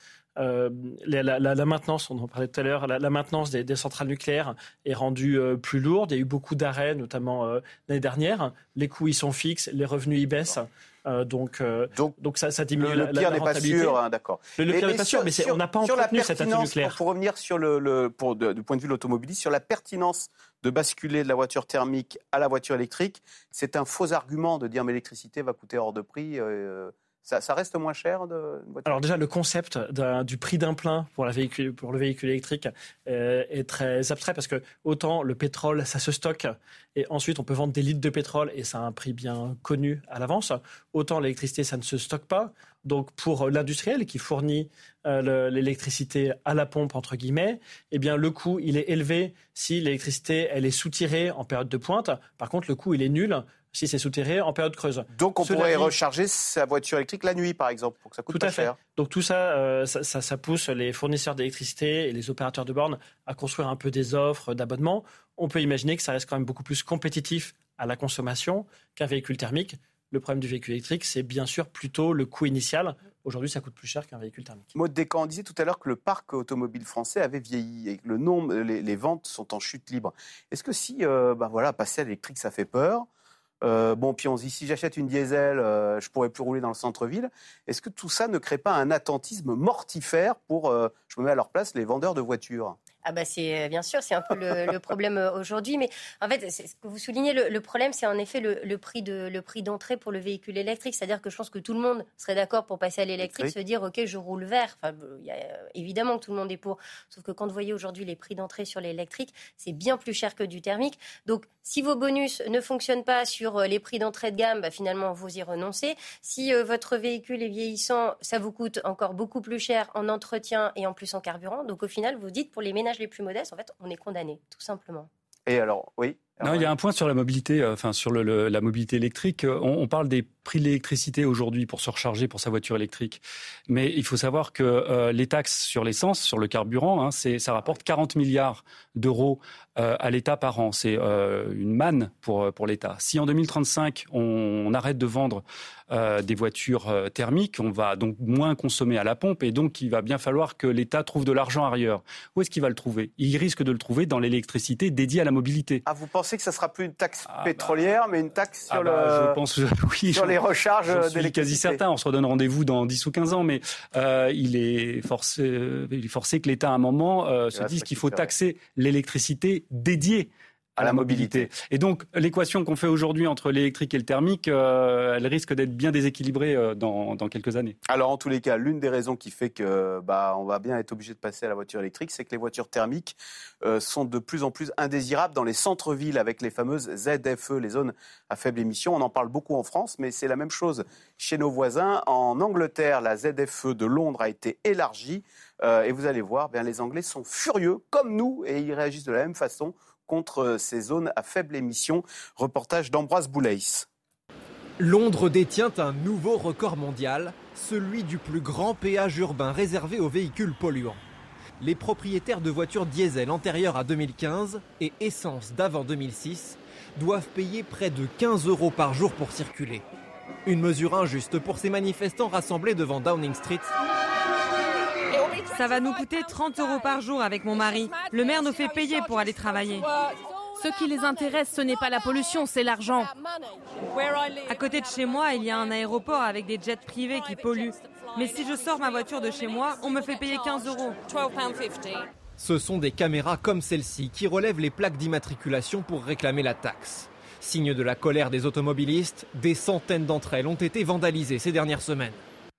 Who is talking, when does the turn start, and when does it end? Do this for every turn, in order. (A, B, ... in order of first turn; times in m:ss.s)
0:00.4-0:14.0 A
0:12.8-0:29.0 B
0:14.6-0:17.0 A
0:28.8-0:55.9 A
0:55.1-0:58.8 B
0:58.3-1:14.7 A
1:14.7-1:23.1 B
1:23.6-1:32.8 B
1:33.0-2:05.1 C
1:43.2-1:43.5 B
2:05.4-2:06.7 B
2:06.4-2:35.8 D
2:35.8-2:39.4 B
2:37.3-2:37.7 D
2:38.7-2:57.8 D
2:40.1-2:41.8 B
2:47.5-2:48.3 B
2:50.8-2:51.5 B
2:57.9-3:23.9 B
3:24.8-3:31.0 E
3:31.6-3:39.8 E
3:40.4-3:43.7 E
3:45.4-3:49.9 F
3:50.6-3:53.1 F
3:54.5-4:01.0 F
4:02.4-4:12.2 E